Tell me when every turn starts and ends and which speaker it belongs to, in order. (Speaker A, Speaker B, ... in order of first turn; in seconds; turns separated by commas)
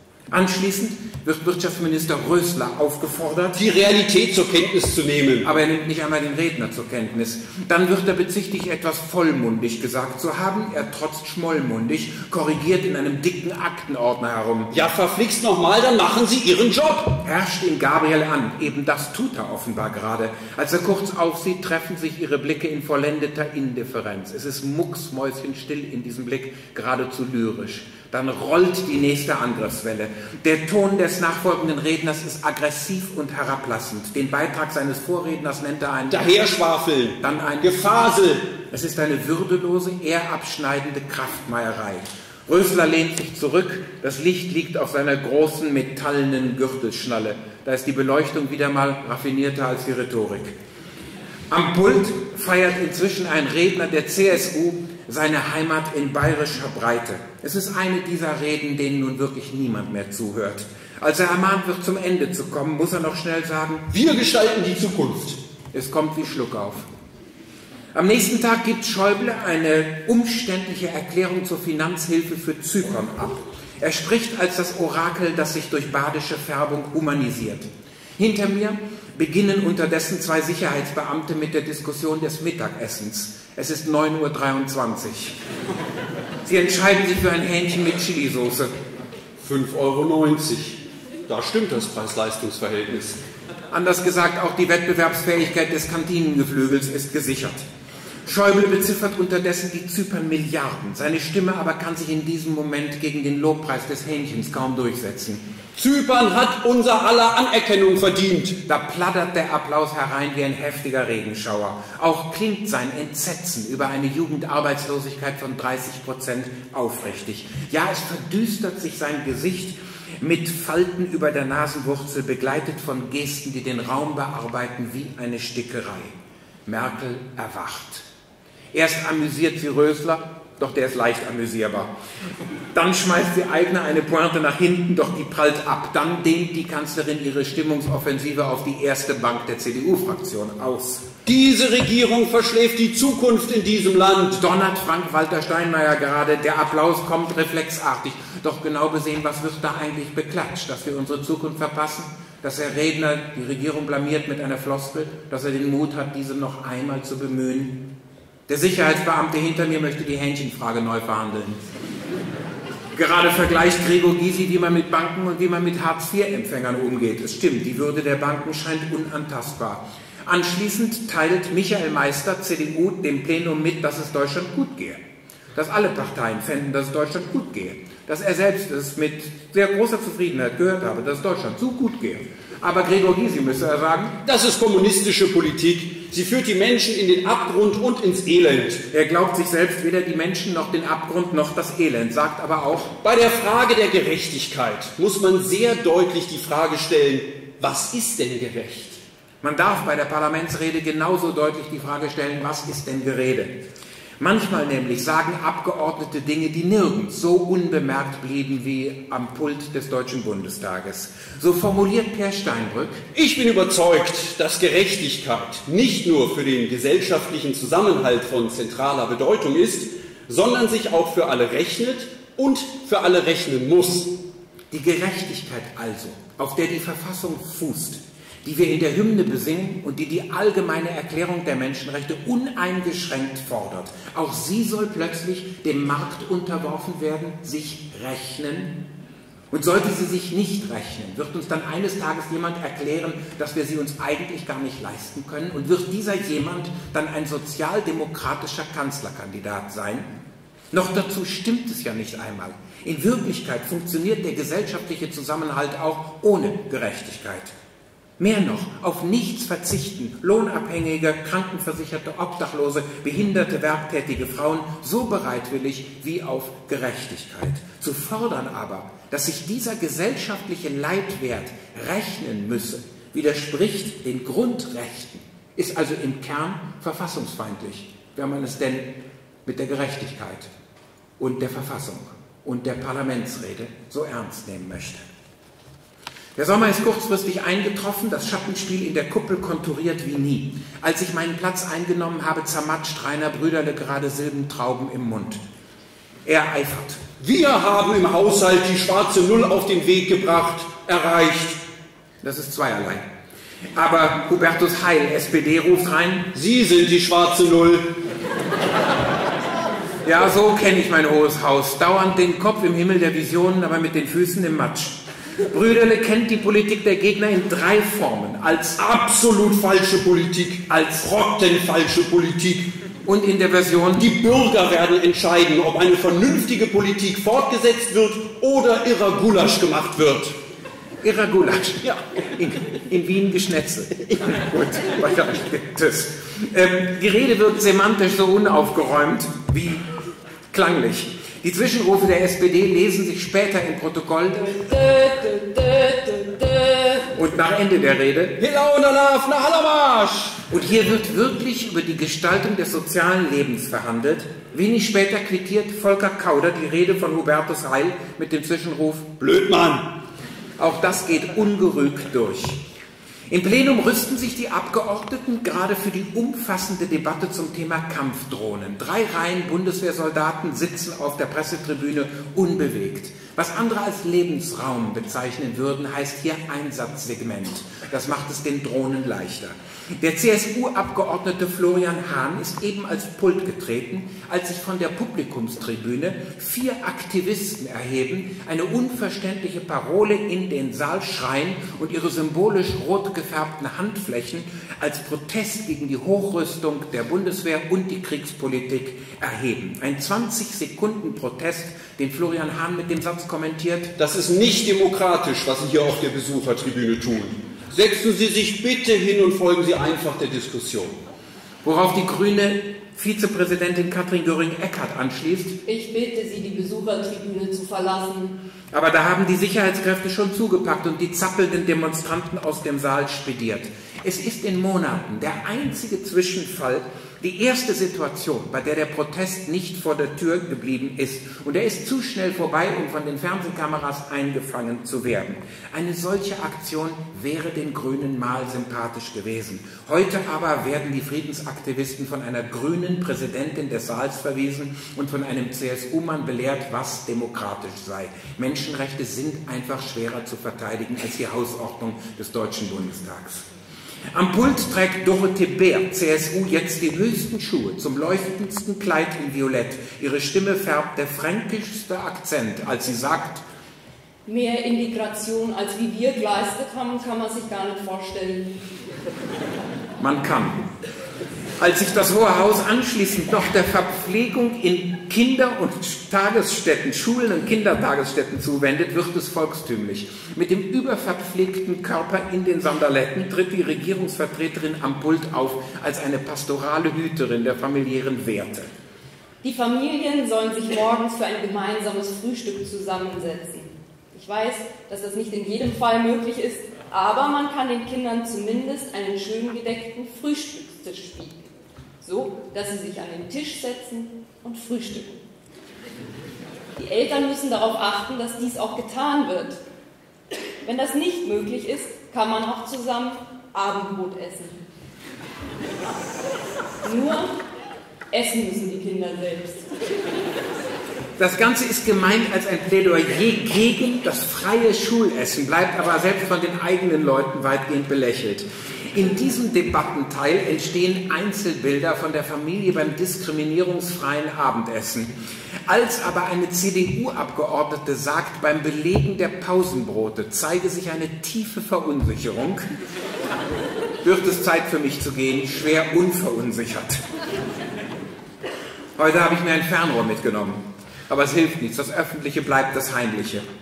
Speaker A: 0.3-3.6, Speaker B: 3.5-5.5, Speaker A: 5.4-14.7, Speaker B: 14.7-17.2, Speaker A: 17.2-36.3, Speaker B: 36.1-38.5, Speaker A: 37.2-37.7, Speaker A: 38.7-50.5, Speaker A: 51.5-63.9, Speaker B: 63.9-65.4, Speaker A: 65.7-66.8, Speaker A: 67.9-85.3, Speaker A: 86.4-88.7, Speaker B: 89.4-93.2, Speaker A: 93.7-97.7, Speaker A: 98.2-105.4, Speaker B: 105.8-108.6, Speaker A: 108.7-126.1, Speaker A: 126.7-128.1, Speaker A: 128.7-131.9, Speaker A: 132.7-141.1, Speaker B: 141.2-144.4, Speaker A: 144.3-157.8, Speaker A: 158.5-161.6, Speaker A: 162.9-175.0, Speaker A: 175.5-184.1, Speaker B: 184.2-188.8, Speaker A: 188.9-192.9, Speaker B: 193.0-199.0, Speaker A: 199.4-203.5, Speaker A: 204.2-213.0, Speaker B: 213.1-224.1, Speaker A: 224.7-238.7, Speaker A: 239.5-250.1, Speaker A: 250.7-257.5, Speaker A: 258.2-278.9, Speaker A: 279.4-280.5, Speaker A: 281.2-285.0, Speaker A: 286.4-295.4, Speaker A: 296.2-297.0, Speaker B: 297.2-301.6, Speaker A: 302.2-303.0, Speaker A: 303.7-306.3, Speaker B: 306.3-307.9, Speaker A: 310.0-315.0, Speaker A: 315.5-318.8, Speaker B: 318.8-322.7, Speaker A: 323.0-324.1, Speaker B: 324.0-330.3, Speaker A: 331.0-339.8, Speaker A: 340.5-344.5, Speaker C: 344.3-347.1, Speaker A: 347.1-348.4, Speaker B: 348.4-350.4, Speaker A: 350.5-359.1, Speaker B: 359.2-359.9, Speaker A: 360.6-362.6, Speaker A: 363.3-403.9, Speaker B: 404.0-411.0, Speaker A: 411.6-415.6, Speaker C: 415.6-418.4, Speaker A: 418.7-453.5, Speaker A: 454.1-463.4, Speaker C: 464.2-468.6, Speaker A: 470.0-470.6, Speaker A: 471.6-488.7, Speaker C: 489.4-501.5, Speaker C: 502.0-505.2, Speaker C: 506.8-509.6, Speaker C: 510.6-514.6, Speaker C: 516.8-517.3, Speaker C: 518.1-519.6, Speaker A: 521.2-535.1, Speaker A: 535.7-542.6, Speaker A: 544.0-547.0, Speaker A: 549.0-553.4